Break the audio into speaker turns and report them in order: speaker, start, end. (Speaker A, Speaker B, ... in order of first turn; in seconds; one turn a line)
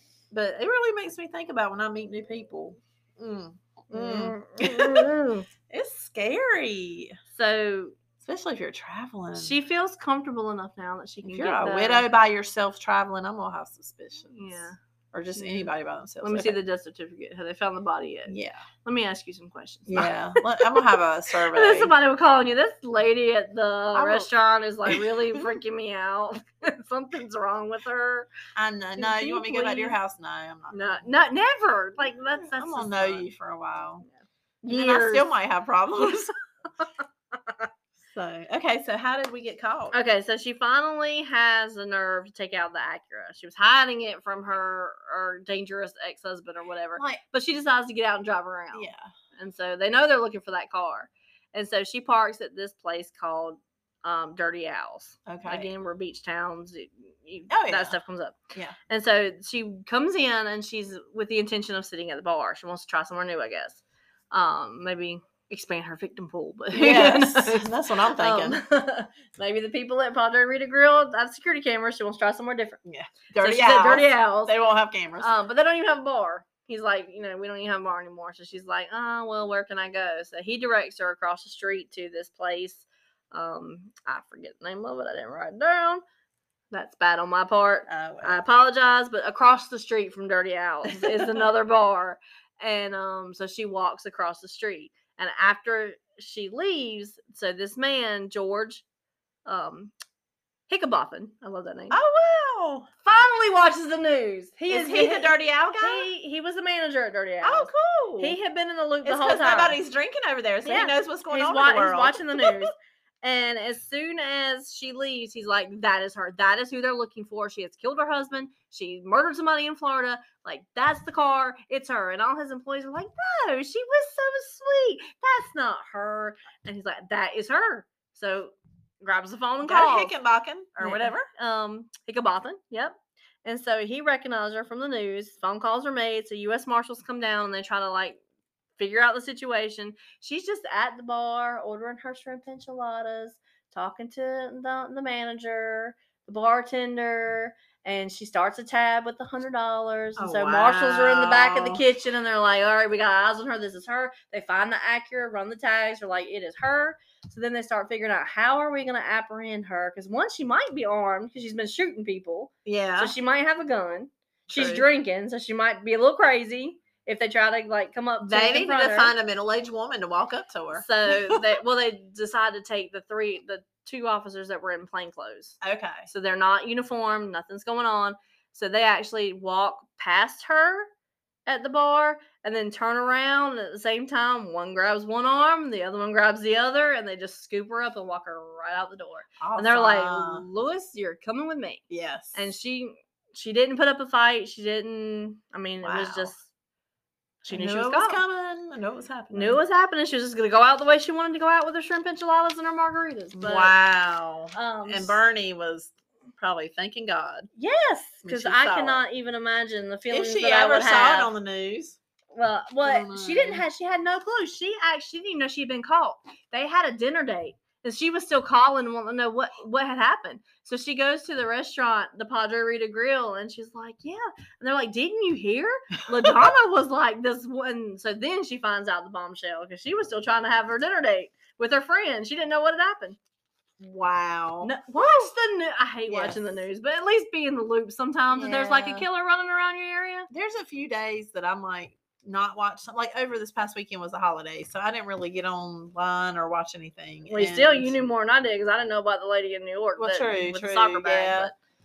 Speaker A: 0.3-5.1
Speaker B: 3.9-5.5
Speaker A: 5.7-7.2
Speaker B: 7.3-8.0
Speaker A: 8.2-9.6
Speaker B: 9.3-12.1
Speaker A: 11.2-14.6
Speaker B: 14.3-14.8
Speaker A: 15.1-16.6
Speaker B: 15.3-15.7
Speaker B: 16.2-18.3
Speaker A: 18.3-18.6
Speaker B: 18.8-28.3
Speaker A: 19.9-21.9
Speaker A: 23.9-24.3
Speaker A: 24.9-25.1
Speaker A: 28.6-31.1
Speaker B: 29.0-30.0
Speaker B: 30.7-33.2
Speaker A: 32.3-34.0
Speaker B: 34.6-35.3
Speaker A: 34.6-36.4
Speaker B: 36.8-37.7
Speaker A: 38.0-40.0
Speaker B: 39.9-58.4
Speaker A: 47.0-47.2
Speaker A: 48.7-49.1
Speaker A: 55.2-55.7
Speaker A: 57.5-58.0
Speaker B: 58.9-72.8
Speaker A: 66.7-68.6
Speaker A: 72.9-75.3
Speaker B: 73.4-74.5
Speaker B: 75.2-86.0
Speaker B: 86.7-98.8
Speaker A: 87.9-88.4
Speaker A: 90.9-91.4
Speaker B: 99.5-99.9
Speaker B: 100.7-102.0
Speaker A: 101.9-102.9
Speaker B: 103.0-109.8
Speaker A: 104.7-106.1
Speaker A: 107.4-108.4
Speaker A: 109.0-112.7
Speaker B: 110.6-130.1
Speaker A: 129.6-131.3
Speaker B: 130.8-138.2
Speaker B: 138.8-169.1
Speaker A: 150.2-151.8
Speaker A: 162.7-163.1
Speaker A: 164.5-164.8
Speaker A: 168.2-171.4
Speaker B: 170.7-180.9
Speaker A: 175.6-176.1
Speaker B: 181.4-191.8
Speaker A: 189.4-190.5
Speaker A: 191.9-192.5
Speaker B: 192.3-196.4
Speaker A: 195.8-196.3
Speaker B: 197.4-198.2
Speaker A: 197.5-199.6
Speaker B: 199.3-203.8
Speaker A: 203.3-207.5
Speaker B: 204.5-205.2
Speaker B: 207.6-211.3
Speaker A: 208.2-209.0
Speaker A: 210.1-212.0
Speaker B: 212.3-233.2
Speaker A: 212.8-213.6
Speaker A: 233.8-234.8
Speaker B: 234.6-240.3
Speaker A: 236.1-236.6
Speaker A: 238.3-239.1
Speaker A: 240.3-248.0
Speaker B: 247.3-251.5
Speaker A: 250.0-251.5